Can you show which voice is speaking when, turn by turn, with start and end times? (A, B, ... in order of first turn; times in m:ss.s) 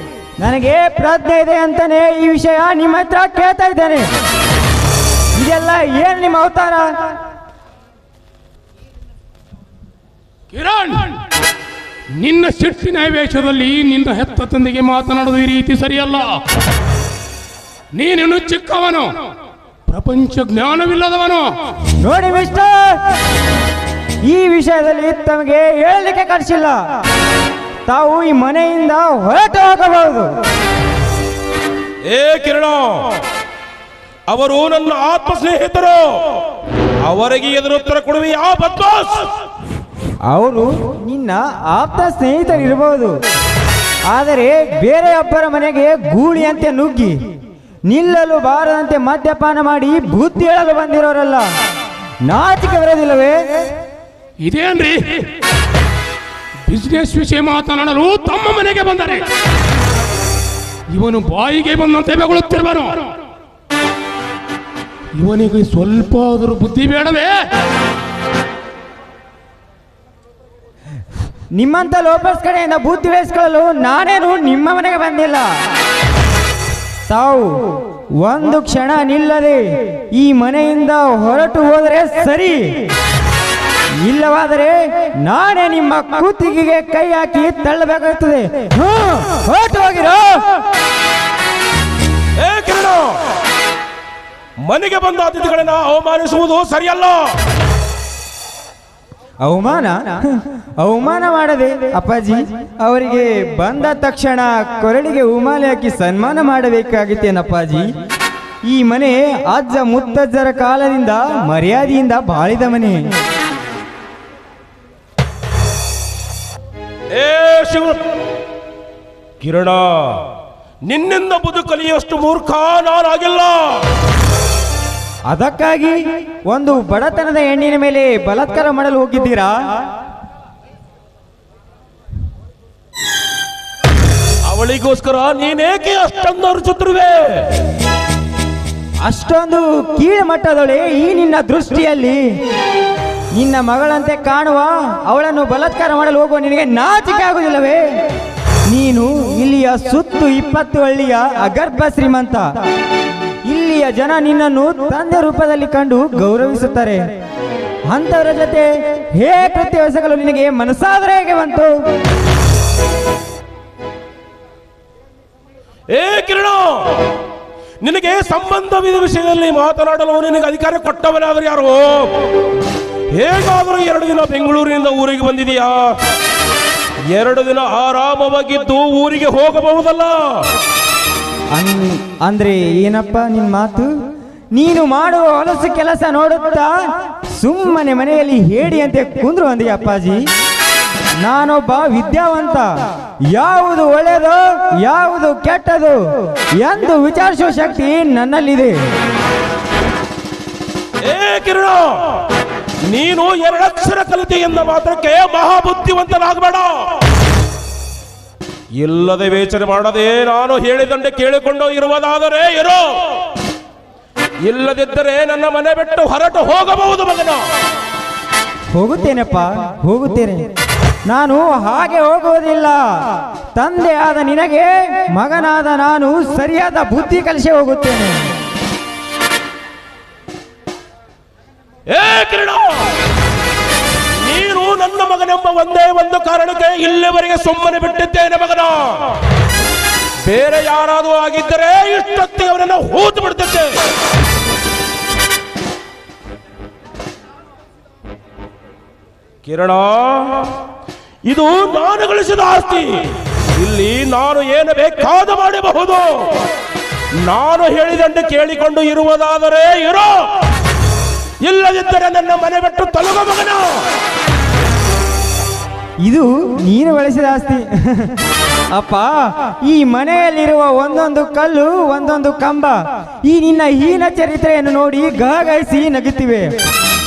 0:00.4-0:04.1 A
0:05.3-0:07.2 A
0:10.5-0:11.2 B
0:12.2-0:16.4 B
0:17.9-0:19.2 B
0:19.9-0:21.5 B
0:22.0-0:23.1 A
0:24.2-0:26.8 A
0:27.8-0:30.3 A
0:32.1-0:33.2 C
0:34.3-0:36.4 C
0:37.0-0:39.3 C
0:40.3-0:43.2 A
0:44.1-0:47.3 A
0:47.9-0:51.5 A
0:52.2-0:53.6 A
0:54.4-0:55.3 B
0:56.6-0:59.2 B
1:00.9-1:03.1 B
1:05.1-1:07.4 B
1:11.5-1:15.6 A
1:17.1-1:22.9 A
1:24.0-1:30.6 A
1:32.4-1:33.2 C
1:34.6-1:37.4 C
1:39.4-1:47.9 A
1:48.6-1:53.1 A
1:57.1-1:58.0 C
1:59.4-2:00.3 C
2:00.8-2:03.9 C
2:05.3-2:09.6 A
2:14.4-2:17.6 C
2:19.0-2:22.4 A
2:23.3-2:27.9 A
2:28.7-2:32.5 A
2:33.4-2:37.1 A
2:37.9-2:41.7 A
2:45.9-2:47.1 C
2:47.8-2:52.2 C
2:53.1-2:56.0 C
2:57.1-3:00.5 C
3:01.5-3:03.9 A
3:04.5-3:10.3 A
3:11.2-3:12.7 A
3:13.3-3:18.8 A
3:21.0-3:22.2 C
3:22.9-3:26.9 C
3:28.8-3:32.8 C
3:34.4-3:37.4 C
3:38.7-3:40.5 A
3:41.1-3:48.3 A
3:51.9-3:53.0 C
3:54.2-3:59.2 C
4:00.2-4:03.7 C
4:09.4-4:10.6 C
4:11.3-4:16.4 C
4:17.2-4:20.3 C
4:21.4-4:23.8 C
4:26.0-4:28.2 A
4:28.7-4:36.6 A